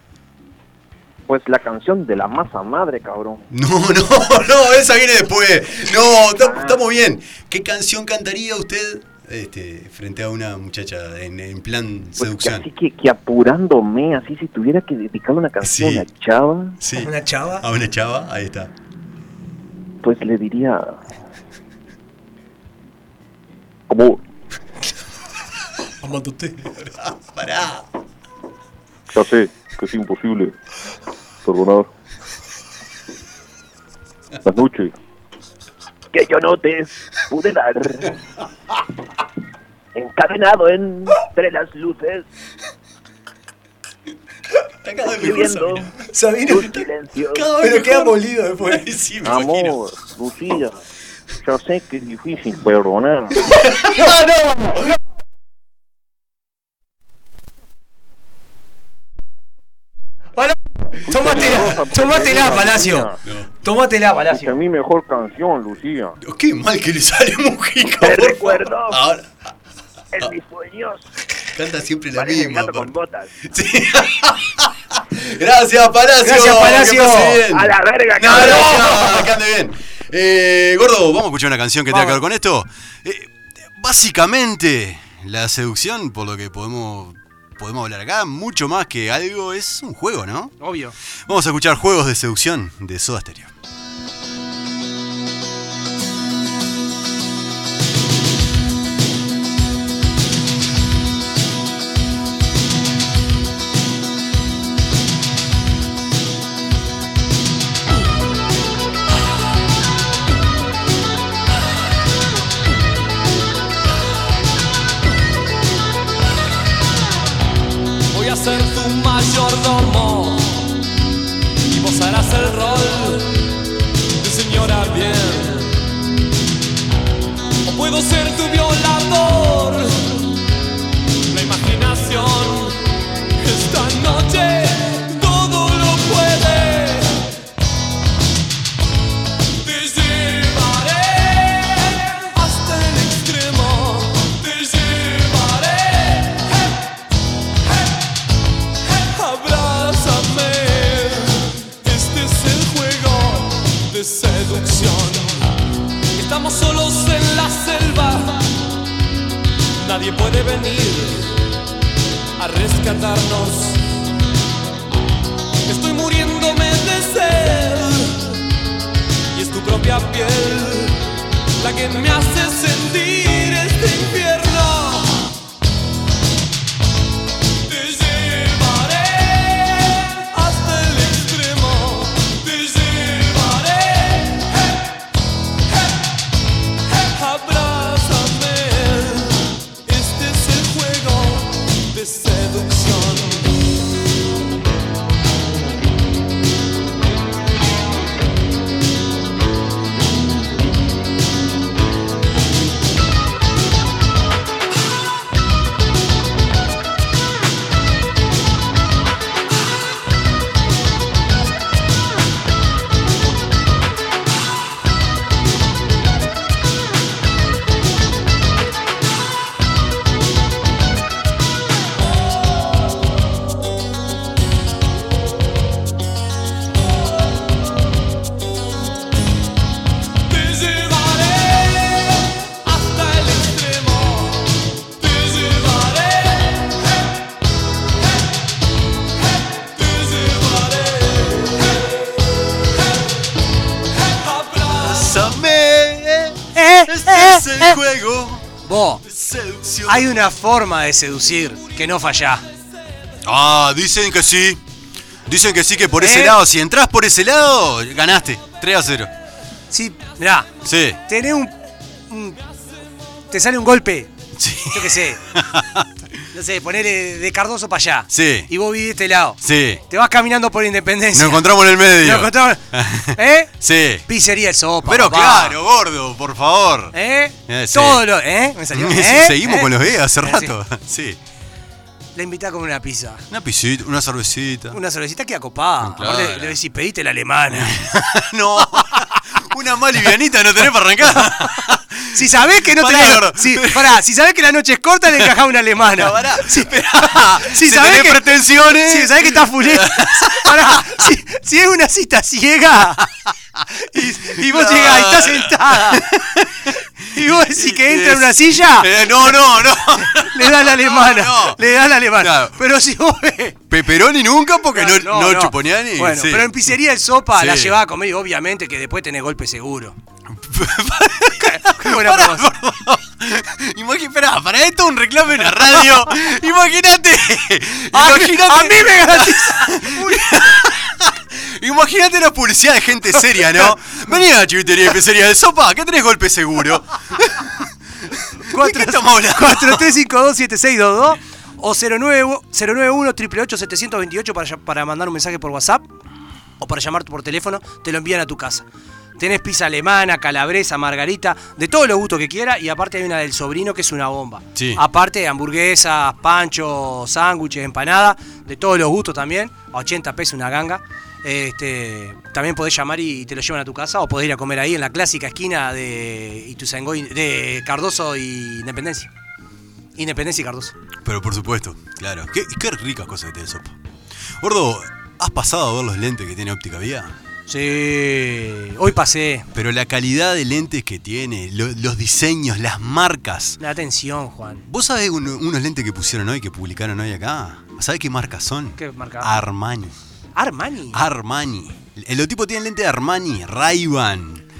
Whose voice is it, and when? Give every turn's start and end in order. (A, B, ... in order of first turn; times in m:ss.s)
0:01.3-0:03.5 A
0:03.5-0:12.7 B
0:06.4-0:06.8 A
0:12.2-0:16.8 A
0:15.6-0:16.1 B
0:16.8-0:18.7 B
0:17.0-0:17.6 C
0:20.0-0:21.0 A
0:23.9-0:24.2 A
0:26.0-0:26.6 C
0:26.6-0:27.8 B
0:29.2-0:30.5 A
0:31.4-0:31.9 A
0:34.5-0:34.9 A
0:36.1-0:38.2 A
0:40.0-0:42.3 A
0:44.8-0:49.8 B
0:45.1-0:45.9 A
0:46.1-0:46.6 C
0:46.5-0:47.5 A
0:49.2-0:50.8 A
0:51.4-0:53.4 A
0:53.4-0:54.2 B
1:00.4-1:03.1 C
1:01.1-1:03.2 A
1:03.2-1:03.5 B
1:03.6-1:04.5 C
1:04.3-1:06.2 A
1:06.2-1:09.3 B
1:08.0-1:09.0 A
1:10.1-1:11.1 A
1:11.5-1:30.6 B
1:12.1-1:13.3 A
1:16.2-1:17.4 C
1:17.5-1:19.2 A
1:21.9-1:22.2 C
1:30.6-1:31.0 C
1:31.2-1:33.5 B
1:58.1-2:00.7 D
2:01.7-2:03.4 D
2:04.2-2:05.8 D
2:07.6-2:10.3 D
2:11.3-2:12.8 D
2:13.4-2:17.3 D
2:19.6-2:26.8 D
2:27.7-2:27.9 D
2:28.8-2:35.5 D
2:36.2-2:38.4 D
2:39.8-2:41.4 D
2:42.4-2:43.8 D
2:45.7-2:48.4 D
2:49.3-2:51.0 D
2:51.6-2:55.3 D
2:57.6-3:04.9 D
3:05.7-3:06.0 D
3:06.9-3:13.6 D
3:50.3-3:57.2 D
3:59.2-4:03.1 D
4:03.9-4:05.3 D
4:04.8-4:10.1 B
4:06.6-4:07.8 C
4:08.6-4:09.0 C
4:09.9-4:12.4 C
4:13.2-4:14.6 B
4:15.3-4:19.1 B
4:16.0-4:16.4 C
4:19.7-4:20.5 C
4:20.6-4:21.0 B
4:21.1-4:21.6 C
4:22.1-4:22.4 C
4:23.3-4:24.1 C
4:24.4-4:25.9 B
4:24.7-4:25.2 C
4:26.3-4:32.6 C
4:28.1-4:28.5 B
4:29.4-4:29.8 B
4:31.1-4:34.1 B
4:33.1-4:33.5 C
4:34.1-4:35.6 C
4:34.8-4:37.0 B
4:36.9-4:40.5 C
4:37.5-4:38.0 B
4:38.7-4:41.2 B
4:42.2-4:43.2 C
4:43.3-4:44.8 B
4:44.7-4:47.7 C
4:45.8-4:46.6 B
4:47.5-4:54.0 B
4:52.1-5:03.1 C
4:55.8-5:01.1 B
5:03.9-5:11.6 B
5:03.9-5:06.1 C
5:07.1-5:13.6 C
5:12.1-5:12.6 B
5:13.7-5:16.6 B
5:14.7-5:20.0 C
5:17.4-5:17.8 B
5:20.3-5:39.9 B
5:21.4-5:22.5 C
5:27.9-5:30.3 C
5:38.5-5:45.8 C
5:46.6-5:48.7 C
5:49.2-6:09.1 C
5:54.6-5:54.8 B
6:10.0-6:10.8 C
6:11.0-6:13.8 B
6:14.4-6:17.1 B
6:17.5-6:19.5 C
6:19.5-6:23.6 B
6:23.6-6:24.7 C
6:24.7-6:30.0 B
6:28.8-6:29.3 C
6:30.4-6:31.0 C
6:30.9-6:34.4 B